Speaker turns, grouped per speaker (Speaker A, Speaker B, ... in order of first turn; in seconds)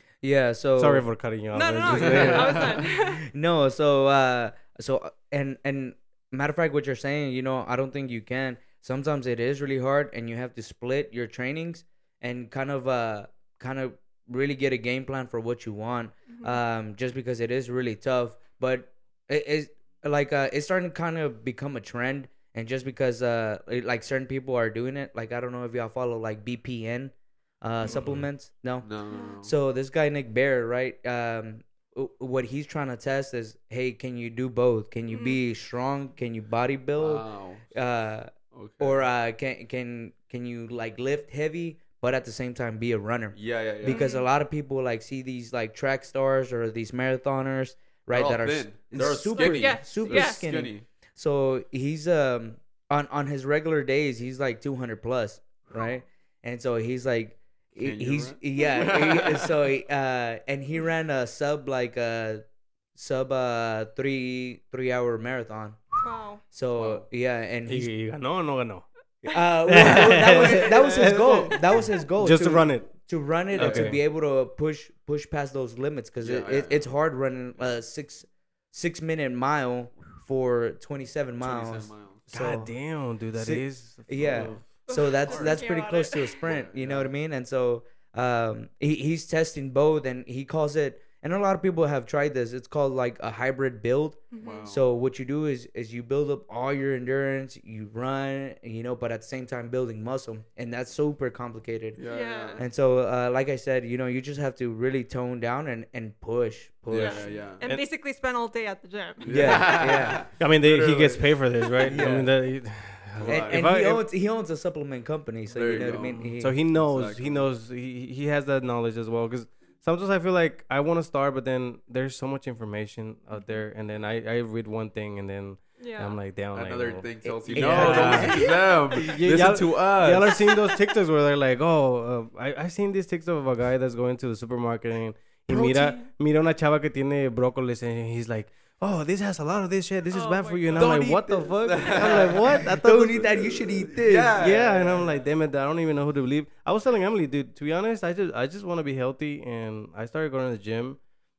Speaker A: 0.2-1.1, 1.9-28.9, 29.4-62.4, 63.0-67.9, 69.2-82.7, 83.3-102.0, 102.6-107.3, 109.3-110.3, 111.9-112.3, 113.3-116.6, 127.3-128.5, 135.5-135.9, 142.7-144.6
Speaker B: 0.8-2.6, 67.7-68.8, 69.6-72.9, 73.5-74.0, 82.3-84.7, 109.4-114.1, 116.1-143.6, 144.4-151.0
Speaker C: 1.5-3.3, 16.3-16.6, 29.1-29.4, 35.1-35.4, 43.9-44.3, 49.0-50.4, 66.0-66.4, 84.9-86.5, 94.3-94.7, 102.1-102.7, 107.0-109.2, 125.8-126.2, 140.1-141.1
Speaker D: 2.0-2.6, 27.8-28.2, 28.8-29.5, 37.0-37.7, 38.5-39.1, 43.3-44.0, 48.1-50.9, 57.8-59.5, 66.7-67.0, 73.5-73.9, 76.2-76.9, 81.4-82.2, 85.3-85.6, 86.5-87.1, 94.4-94.8, 102.0-102.7, 106.9-107.6, 109.2-112.3, 113.2-113.7, 115.5-117.5, 126.5-130.4, 140.8-142.7, 143.5-145.2